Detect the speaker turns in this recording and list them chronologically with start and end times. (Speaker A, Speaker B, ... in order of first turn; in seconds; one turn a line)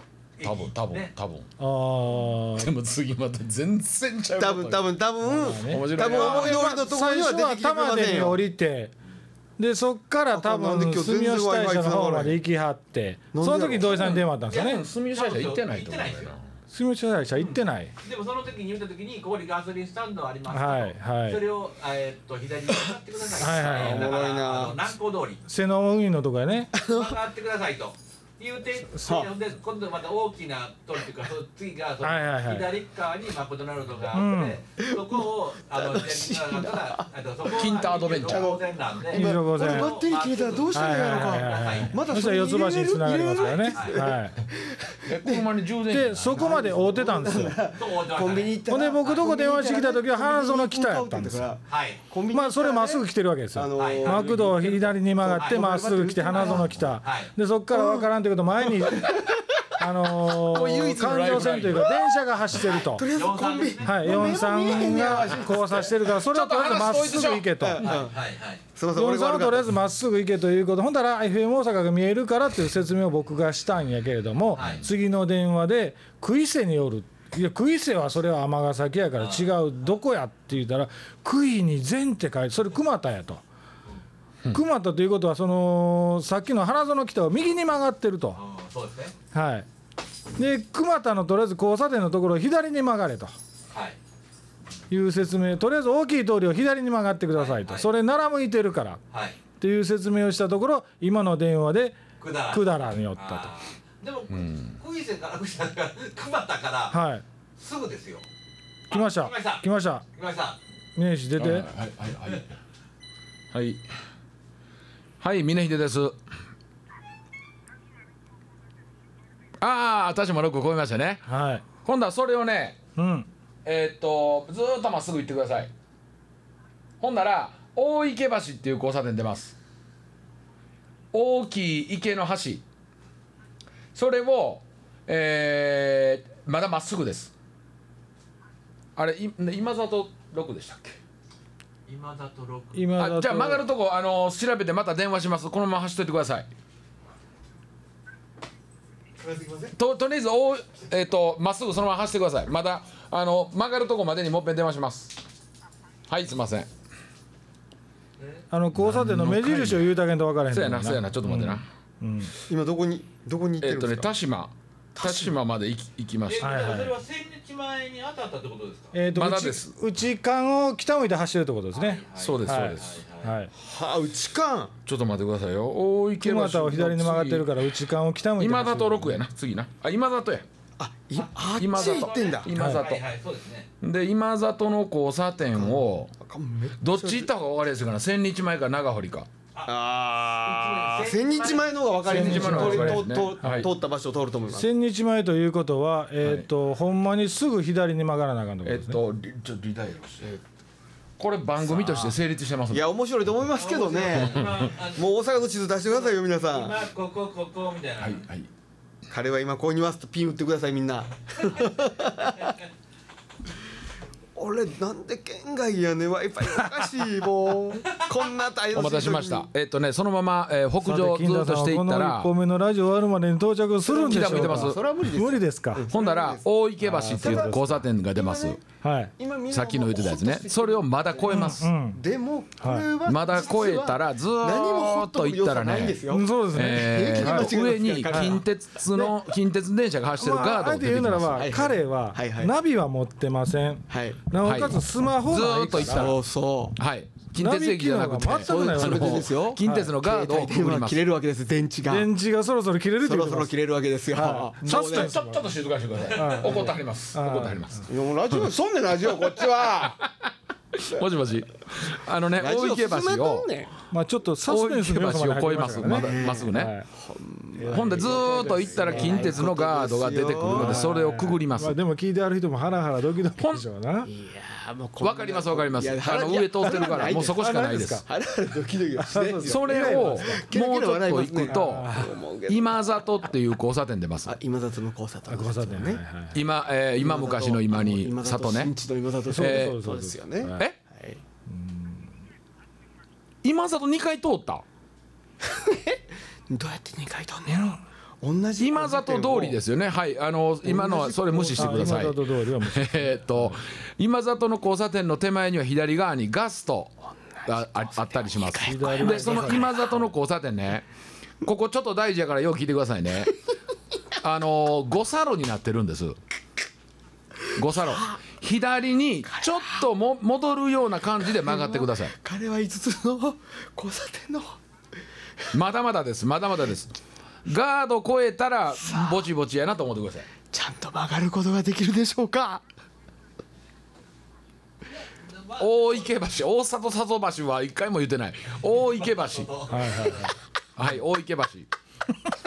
Speaker A: 0.4-1.1
Speaker B: 0.4-1.5
Speaker C: 1.6-2.7
Speaker B: 2.6-5.0
Speaker D: 4.4-8.4
Speaker C: 5.2-8.9
Speaker B: 5.5-6.6
Speaker C: 9.6-14.8
Speaker D: 10.3-12.4
Speaker D: 13.3-14.2
Speaker B: 14.4-16.4
Speaker A: 14.5-16.3
Speaker C: 16.7-17.9
Speaker A: 17.4-25.4
Speaker C: 20.5-21.4
Speaker C: 23.4-24.2
Speaker D: 23.4-24.9
Speaker C: 25.5-26.7
Speaker A: 26.7-42.0
Speaker D: 26.8-27.2
Speaker C: 28.9-29.2
Speaker C: 32.0-32.7
Speaker C: 34.1-34.6
Speaker D: 34.8-35.2
Speaker D: 35.7-37.0
Speaker B: 37.5-38.5
Speaker D: 38.2-45.5
Speaker C: 39.1-39.9
Speaker C: 40.7-44.4
Speaker A: 43.3-44.1
Speaker B: 45.1-46.7
Speaker C: 45.9-47.6
Speaker D: 46.3-56.7
Speaker A: 47.8-48.6
Speaker C: 48.7-51.5
Speaker A: 51.7-52.0
Speaker C: 52.3-59.2
Speaker A: 53.8-54.5
Speaker A: 55.3-57.3
Speaker D: 57.7-58.1
Speaker D: 58.8-59.4
Speaker C: 59.8-63.1
Speaker B: 60.4-62.0
Speaker D: 62.7-65.9
Speaker A: 63.0-65.0
Speaker C: 63.8-67.8
Speaker B: 65.1-67.5
Speaker D: 67.6-68.1
Speaker A: 67.8-68.6
Speaker D: 68.8-69.7
Speaker C: 69.0-83.4
Speaker A: 74.5-74.8
Speaker A: 79.2-79.5
Speaker C: 84.5-88.4
Speaker A: 88.3-89.2
Speaker C: 89.3-89.7
Speaker C: 90.4-93.3
Speaker C: 94.9-99.0
Speaker A: 97.3-97.9
Speaker A: 99.1-99.4
Speaker C: 99.6-102.0
Speaker A: 102.2-107.0
Speaker C: 102.5-103.5
Speaker B: 104.3-104.8
Speaker C: 106.9-107.2
Speaker A: 107.6-108.3
Speaker C: 108.9-110.0
Speaker A: 108.9-110.6
Speaker C: 111.0-111.7
Speaker B: 111.4-112.5
Speaker B: 113.5-113.8
Speaker B: 115.2-116.2
Speaker B: 119.6-121.3
Speaker C: 121.3-121.6
Speaker B: 121.8-122.8
Speaker C: 123.0-123.3
Speaker B: 123.7-125.7
Speaker B: 127.0-129.5
Speaker B: 131.1-132.6
Speaker B: 133.9-137.3
Speaker B: 139.0-141.0
Speaker A: 141.9-142.9
Speaker C: 142.7-143.7
Speaker B: 143.0-146.5
Speaker D: 149.2-149.8
Speaker B: 149.8-155.2
Speaker B: 156.1-156.7
Speaker A: 158.2-158.4
Speaker C: 158.5-162.3
Speaker B: 158.8-159.9
Speaker B: 160.5-161.7
Speaker D: 162.5-164.1
Speaker B: 163.6-166.5
Speaker D: 165.0-165.3
Speaker A: 166.3-169.0
Speaker C: 166.4-166.9
Speaker C: 168.9-173.5
Speaker B: 169.2-169.7
Speaker A: 171.7-173.4
Speaker B: 172.2-173.0
Speaker D: 173.6-174.7
Speaker B: 174.9-177.5
Speaker C: 176.2-179.2
Speaker B: 178.4-180.5
Speaker D: 180.8-182.5
Speaker A: 181.2-183.7
Speaker B: 181.6-183.0
Speaker C: 182.5-182.8
Speaker B: 183.8-186.1
Speaker D: 185.5-187.3
Speaker B: 186.8-189.3
Speaker D: 189.7-194.7
Speaker A: 190.4-192.6
Speaker C: 192.1-193.7
Speaker B: 192.1-193.7
Speaker C: 194.5-199.0
Speaker B: 198.7-200.3
Speaker B: 201.2-202.9
Speaker D: 201.6-202.2
Speaker D: 202.7-206.8
Speaker A: 203.5-205.1
Speaker B: 204.2-204.6
Speaker A: 205.9-208.3
Speaker B: 208.0-208.5
Speaker D: 209.1-212.5
Speaker D: 214.4-219.5
Speaker B: 218.7-222.3
Speaker C: 220.8-225.9
Speaker D: 223.9-226.4
Speaker B: 224.1-224.8
Speaker B: 225.9-228.6
Speaker C: 226.8-227.8
Speaker D: 227.0-227.6
Speaker D: 228.2-228.6
Speaker C: 228.8-229.1
Speaker D: 229.2-238.4
Speaker B: 229.5-231.7
Speaker C: 231.3-232.0
Speaker C: 232.6-232.9
Speaker B: 233.1-236.0
Speaker C: 236.1-238.4
Speaker B: 236.5-241.6
Speaker C: 240.2-246.1
Speaker D: 241.4-242.5
Speaker D: 243.9-244.2
Speaker B: 244.4-246.2
Speaker D: 245.9-246.8
Speaker B: 246.8-251.0
Speaker C: 247.4-249.9
Speaker D: 248.4-252.1
Speaker C: 251.9-253.5
Speaker D: 253.0-255.1
Speaker C: 254.1-255.5
Speaker B: 254.7-258.5
Speaker C: 256.1-257.9
Speaker D: 257.9-260.0
Speaker B: 259.8-263.5
Speaker D: 262.4-263.7
Speaker C: 263.9-266.9
Speaker B: 264.5-266.7
Speaker D: 265.9-270.9
Speaker C: 267.6-269.4
Speaker B: 267.7-271.8
Speaker C: 270.4-274.1
Speaker B: 273.4-273.6
Speaker D: 274.1-277.4
Speaker B: 275.0-278.0
Speaker C: 276.6-278.0
Speaker D: 278.0-282.9
Speaker C: 279.0-280.4
Speaker B: 279.4-281.9
Speaker C: 281.5-282.2
Speaker B: 282.5-284.4
Speaker D: 284.3-286.0
Speaker C: 285.3-286.4
Speaker B: 286.3-288.7
Speaker D: 287.0-291.2
Speaker C: 289.3-290.6
Speaker B: 289.3-289.8
Speaker C: 291.5-292.1
Speaker B: 293.4-294.6
Speaker D: 295.4-299.6
Speaker B: 298.6-306.9
Speaker D: 300.6-302.0
Speaker C: 301.6-303.6
Speaker D: 307.3-310.0
Speaker B: 307.5-310.9
Speaker C: 308.6-309.9
Speaker B: 311.4-313.3
Speaker B: 314.2-316.2
Speaker B: 317.6-322.1
Speaker D: 317.9-318.2
Speaker D: 319.3-319.8
Speaker D: 321.3-324.6
Speaker B: 325.5-330.3
Speaker D: 328.8-329.2
Speaker D: 330.5-332.6
Speaker A: 335.3-336.1
Speaker B: 335.6-339.5
Speaker A: 338.9-340.3
Speaker C: 339.7-340.3
Speaker B: 340.8-341.7